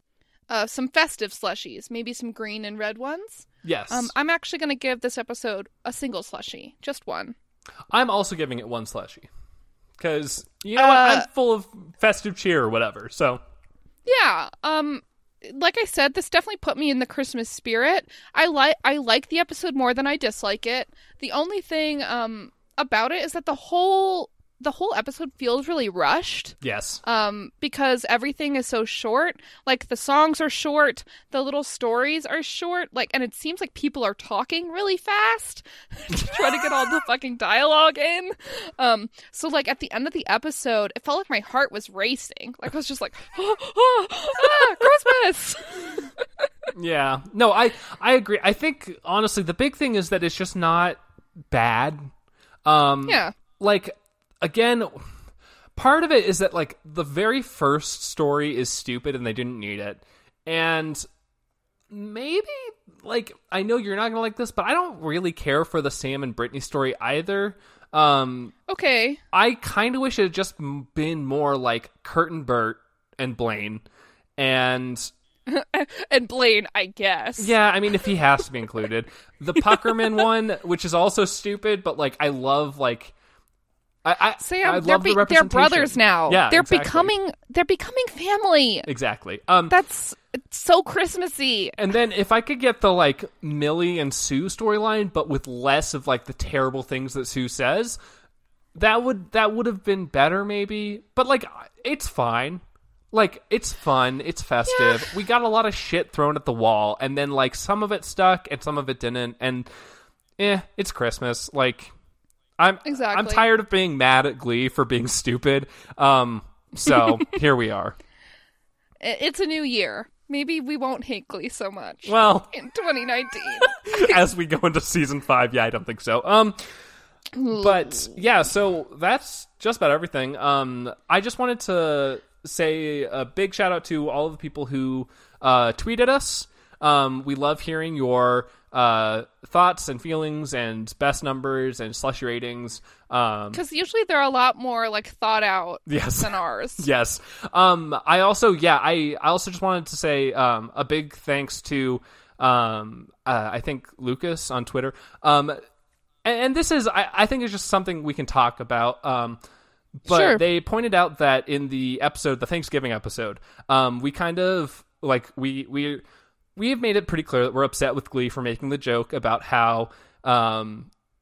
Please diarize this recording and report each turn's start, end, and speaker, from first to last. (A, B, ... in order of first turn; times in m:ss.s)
0:00.5-0:07.4 A
0:03.6-0:04.1 B
0:07.9-0:09.3 B
0:10.0-0:13.4 B
0:10.8-0:11.3 A
0:14.1-0:46.2 A
0:26.6-0:27.0 B
0:46.7-0:52.1 B
0:52.6-0:54.9 B
0:53.0-0:53.3 A
0:55.8-1:01.0 B
1:01.9-1:08.5 B
1:08.7-1:09.2 A
1:09.3-1:13.8 B
1:14.4-1:15.1 B
1:15.5-1:17.5 A
1:17.4-1:23.1 B
1:24.0-1:27.1 B
1:24.4-1:28.9 A
1:28.9-1:29.7 B
1:29.7-1:31.8 A
1:31.8-1:38.0 B
1:38.8-1:49.7 B
1:44.7-1:45.1 A
1:50.4-1:51.9 B
1:52.6-1:58.0 B
1:52.8-1:53.5 A
1:59.0-2:04.2 A
2:02.1-2:02.5 B
2:03.6-2:06.6 B
2:07.4-2:08.1 A
2:07.5-2:23.6 B
2:23.5-2:26.9 A
2:25.9-2:35.6 B
2:36.2-2:39.4 B
2:40.0-2:46.0 B
2:40.1-2:40.4 A
2:46.6-2:50.9 B